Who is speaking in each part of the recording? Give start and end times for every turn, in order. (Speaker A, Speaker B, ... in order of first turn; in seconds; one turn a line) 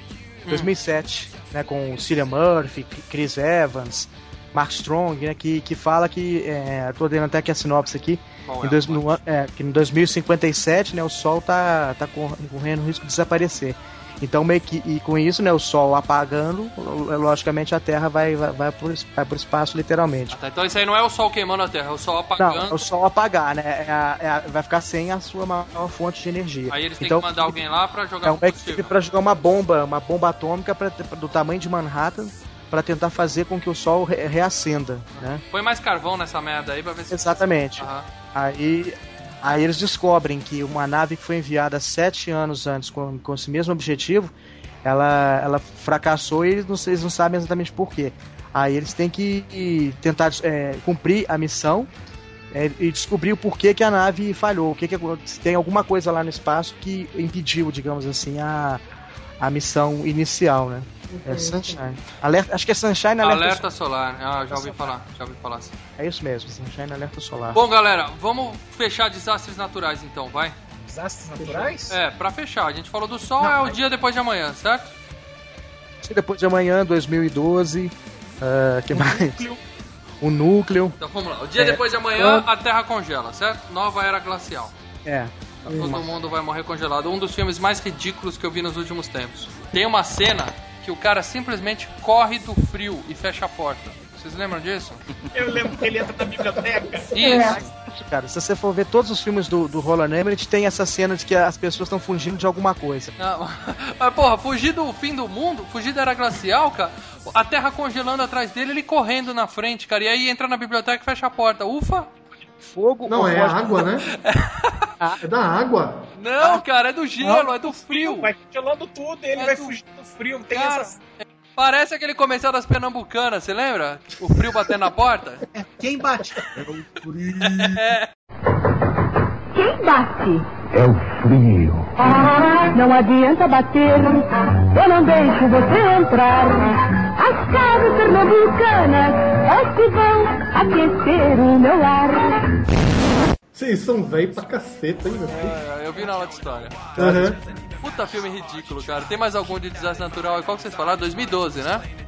Speaker A: 0.5-20.4
Speaker B: 8.4-9.2
Speaker B: 20.3-22.9
Speaker A: 22.4-27.6
Speaker B: 26.7-28.9
Speaker A: 28.2-35.4
Speaker B: 35.1-38.0
Speaker A: 37.1-44.3
Speaker A: 44.8-51.9
Speaker A: 52.5-58.8
Speaker A: 59.4-63.6
Speaker C: 61.1-61.8
Speaker B: 63.2-65.7
Speaker A: 66.0-67.6
Speaker B: 67.5-70.5
Speaker D: 70.8-72.0
Speaker C: 71.4-71.7
Speaker B: 71.9-74.9
Speaker D: 73.4-73.8
Speaker A: 76.0-79.4
Speaker D: 78.9-79.6
Speaker A: 80.2-81.0
Speaker B: 81.0-84.7
Speaker A: 81.6-82.5
Speaker A: 85.0-86.1
Speaker B: 85.7-95.0
Speaker C: 85.7-86.0
Speaker D: 95.3-97.4
Speaker B: 97.1-97.7
Speaker A: 97.2-103.1
Speaker B: 103.2-112.1
Speaker A: 112.7-113.8
Speaker C: 113.1-114.1
Speaker B: 114.1-114.9
Speaker C: 115.2-116.1
Speaker B: 116.2-118.3
Speaker D: 117.2-121.0
Speaker B: 119.3-119.7
Speaker B: 120.5-125.4
Speaker D: 125.5-126.8
Speaker B: 127.4-128.1
Speaker E: 129.5-130.9
Speaker E: 132.0-142.4
Speaker C: 143.5-145.6
Speaker B: 145.3-146.9
Speaker A: 146.9-147.3
Speaker C: 146.9-147.4
Speaker B: 147.8-151.8